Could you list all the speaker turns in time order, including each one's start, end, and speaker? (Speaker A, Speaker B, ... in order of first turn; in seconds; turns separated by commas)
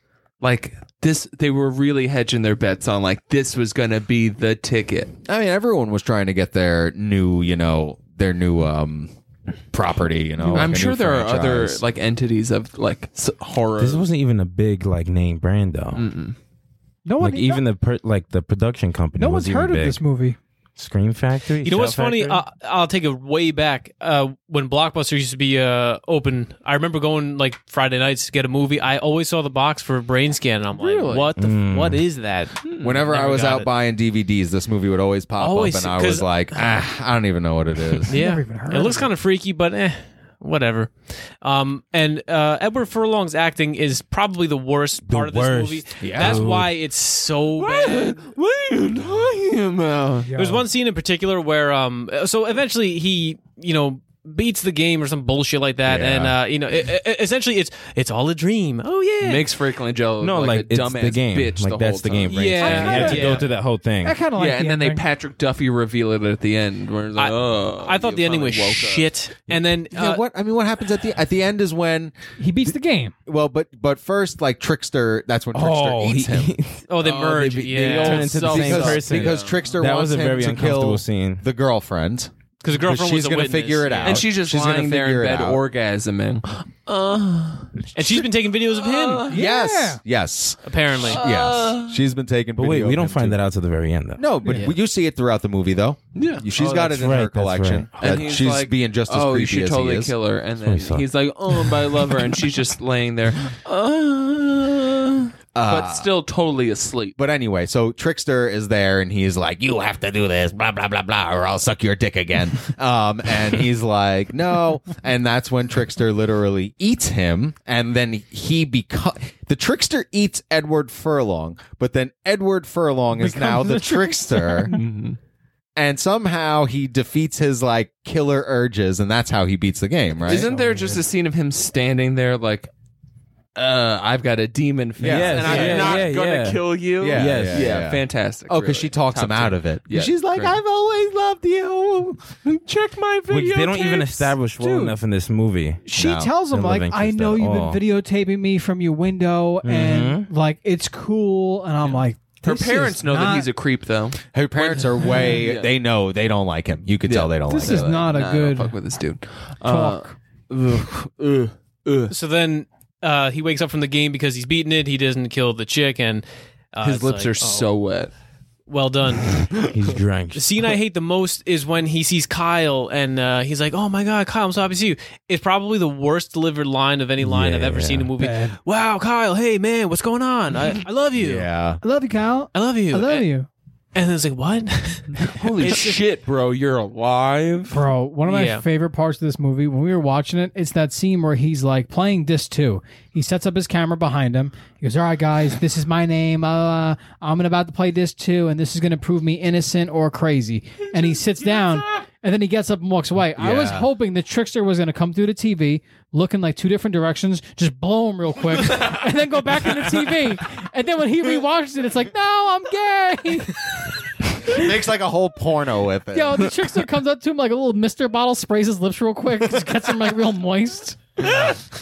Speaker A: 0.4-5.1, Speaker B: 5.3-9.1, Speaker B: 9.7-11.8, Speaker C: 10.4-10.7, Speaker A: 10.5-14.0, Speaker D: 13.8-16.1, Speaker A: 15.9-16.4, Speaker C: 17.0-17.6, Speaker D: 17.2-20.0, Speaker C: 19.1-20.4, Speaker D: 20.8-22.4, Speaker E: 21.6-33.7, Speaker A: 30.7-31.3, Speaker D: 31.4-32.0, Speaker A: 32.6-33.0, Speaker B: 32.8-38.1, Speaker E: 35.4-36.7, Speaker C: 38.1-39.1, Speaker E: 38.1-48.2, Speaker D: 45.0-46.7, Speaker B: 46.0-46.5, Speaker A: 47.5-50.3, Speaker C: 50.2-50.6, Speaker E: 50.3-59.5, Speaker B: 55.8-56.4, Speaker A: 59.2-63.3, Speaker D: 60.2-64.2, Speaker E: 62.3-63.5, Speaker C: 62.6-63.4, Speaker C: 64.0-65.0, Speaker A: 64.3-69.1, Speaker E: 67.2-70.2, Speaker B: 69.9-72.2, Speaker C: 72.4-73.2, Speaker B: 73.3-76.5, Speaker D: 75.5-76.8, Speaker E: 76.9-78.6, Speaker A: 77.0-79.6, Speaker D: 77.7-81.4, Speaker B: 78.5-85.6, Speaker E: 82.6-84.2, Speaker A: 84.0-87.8, Speaker E: 87.9-89.3, Speaker A: 88.8-89.4, Speaker C: 89.3-90.0, Speaker B: 89.3-93.4, Speaker E: 90.6-91.2, Speaker A: 91.0-92.0, Speaker D: 92.5-94.3, Speaker B: 94.2-100.1, Speaker E: 94.5-94.8, Speaker A: 96.1-96.9, Speaker D: 96.7-97.9, Speaker A: 98.0-107.2, Speaker D: 100.6-101.1, Speaker B: 105.5-106.1, Speaker B: 107.2-124.7, Speaker C: 123.1-124.8, Speaker A: 124.7-125.2, Speaker B: 125.8-130.5, Speaker A: 130.2-132.7, Speaker A: 133.5-140.6, Speaker B: 135.0-136.1, Speaker D: 135.0-137.8, Speaker B: 137.0-142.2, Speaker A: 142.4-144.3, Speaker D: 143.3-145.8, Speaker C: 144.6-144.9, Speaker C: 145.8-153.5, Speaker B: 145.9-146.3, Speaker D: 146.5-147.8, Speaker D: 149.6-150.3, Speaker A: 151.9-155.7, Speaker B: 154.3-158.0, Speaker A: 157.0-162.1, Speaker C: 157.5-158.8, Speaker C: 159.6-160.1, Speaker E: 162.1-167.7, Speaker A: 166.8-168.1, Speaker E: 168.7-169.5, Speaker D: 169.6-170.4, Speaker E: 170.3-181.5, Speaker D: 177.2-178.1, Speaker C: 178.2-178.6, Speaker B: 181.2-181.8, Speaker C: 181.8-183.5, Speaker E: 182.5-183.3, Speaker E: 183.9-186.0, Speaker A: 185.2-187.8, Speaker C: 187.7-213.9, Speaker E: 188.2-188.6, Speaker B: 203.4-203.9, Speaker B: 214.5-216.5, Speaker C: 216.1-221.6, Speaker A: 221.2-221.5